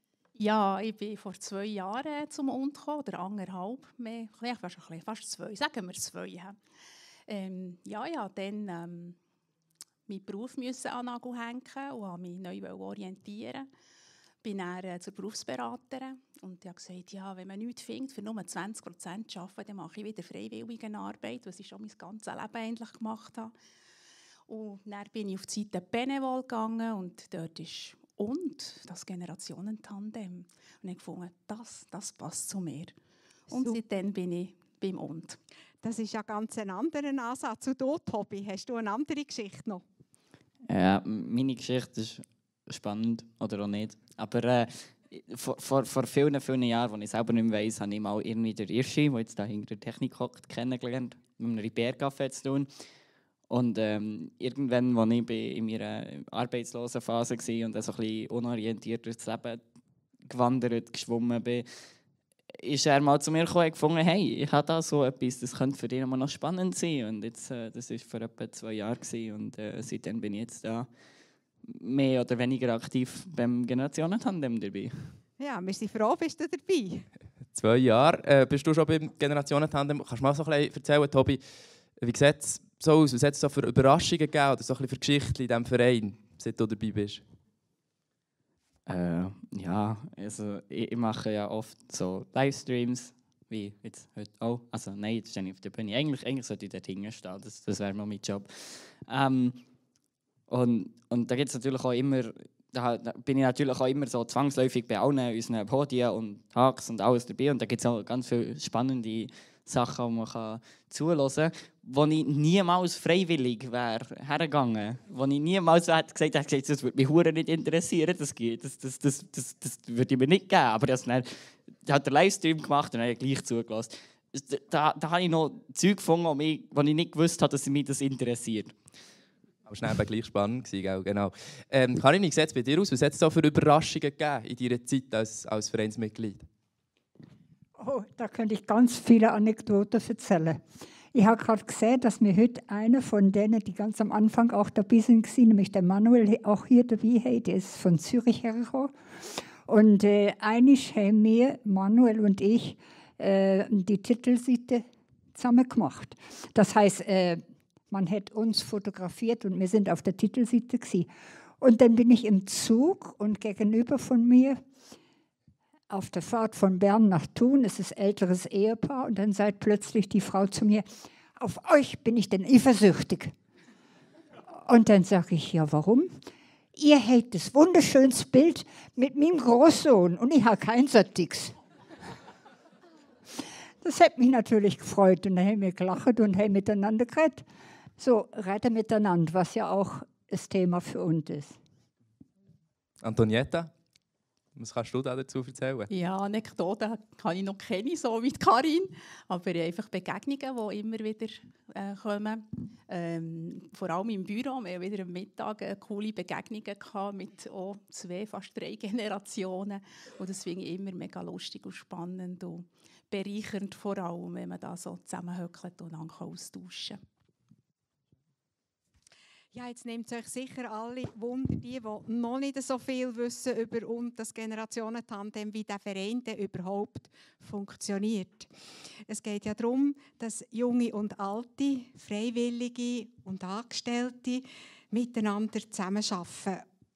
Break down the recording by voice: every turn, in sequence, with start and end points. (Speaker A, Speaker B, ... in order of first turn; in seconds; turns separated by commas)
Speaker A: 0.4-6.6, Speaker A: 7.3-9.2, Speaker A: 10.1-13.7, Speaker A: 14.4-23.6, Speaker A: 24.5-33.0, Speaker A: 33.5-35.4, Speaker B: 35.8-39.8, Speaker C: 40.7-52.7, Speaker C: 53.5-59.6, Speaker C: 60.3-61.7, Speaker C: 62.6-70.9, Speaker C: 71.6-75.2, Speaker B: 75.4-77.1, Speaker D: 77.5-87.2, Speaker C: 88.9-99.6, Speaker C: 100.5-128.8, Speaker D: 129.7-136.5, Speaker E: 137.8-140.6, Speaker E: 141.1-164.6, Speaker E: 165.9-173.3, Speaker E: 174.6-176.2, Speaker E: 176.8-181.6, Speaker E: 183.8-187.5, Speaker E: 188.0-191.6, Speaker D: 193.0-193.7, Speaker D: 194.6-195.9, Speaker A: 195.9-217.0, Speaker B: 219.5-228.5, Speaker B: 229.1-236.6